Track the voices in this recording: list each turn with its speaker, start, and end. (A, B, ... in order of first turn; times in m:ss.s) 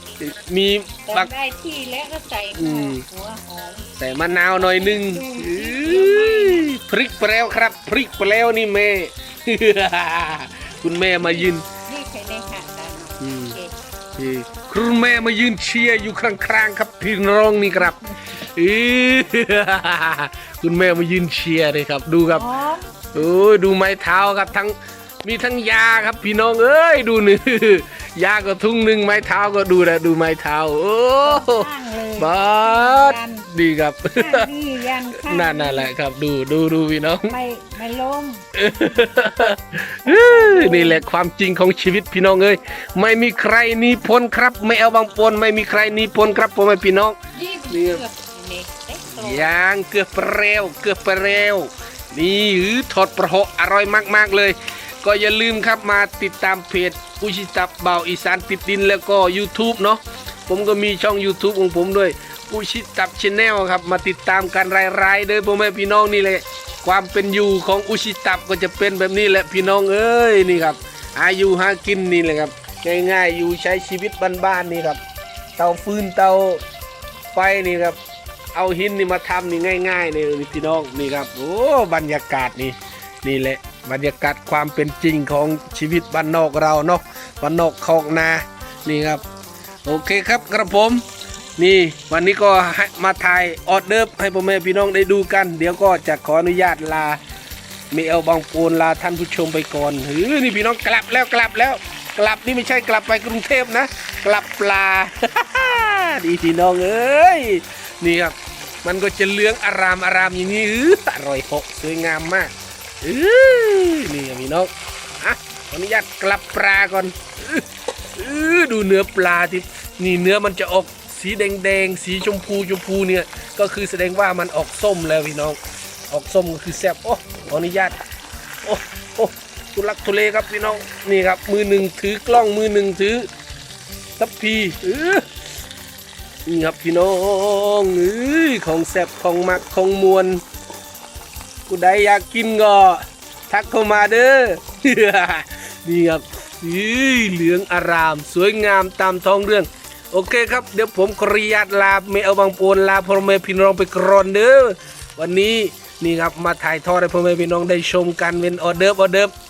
0:00.2-0:01.3 A
0:01.0-0:03.9 B
0:02.6-0:03.0 A
0:04.0-0:11.7 A
0:04.6-0:06.8 B
0:11.2-0:13.8 B
0:13.2-0:13.6 A
0:14.2-0:22.5 A
0:22.3-0:23.0 B
0:23.1-0:34.5 A
0:31.2-0:33.5 B
0:34.2-0:35.9 B
0:35.2-0:37.4 A
0:37.3-0:39.1 B
0:38.5-0:47.2 A
0:40.0-0:41.0 B
0:47.3-0:49.5 B
0:47.7-0:48.0 A
0:49.1-1:15.0 A
1:15.6-1:16.6 A
1:17.3-1:18.0 A
1:18.5-1:29.2 A
1:29.8-1:31.0 A
1:31.6-1:37.2 A
1:37.9-2:05.6 A
2:06.1-2:08.0 A
2:08.6-2:13.3 A
2:14.2-2:15.2 A
2:16.5-2:20.4 A
2:21.7-2:39.3 A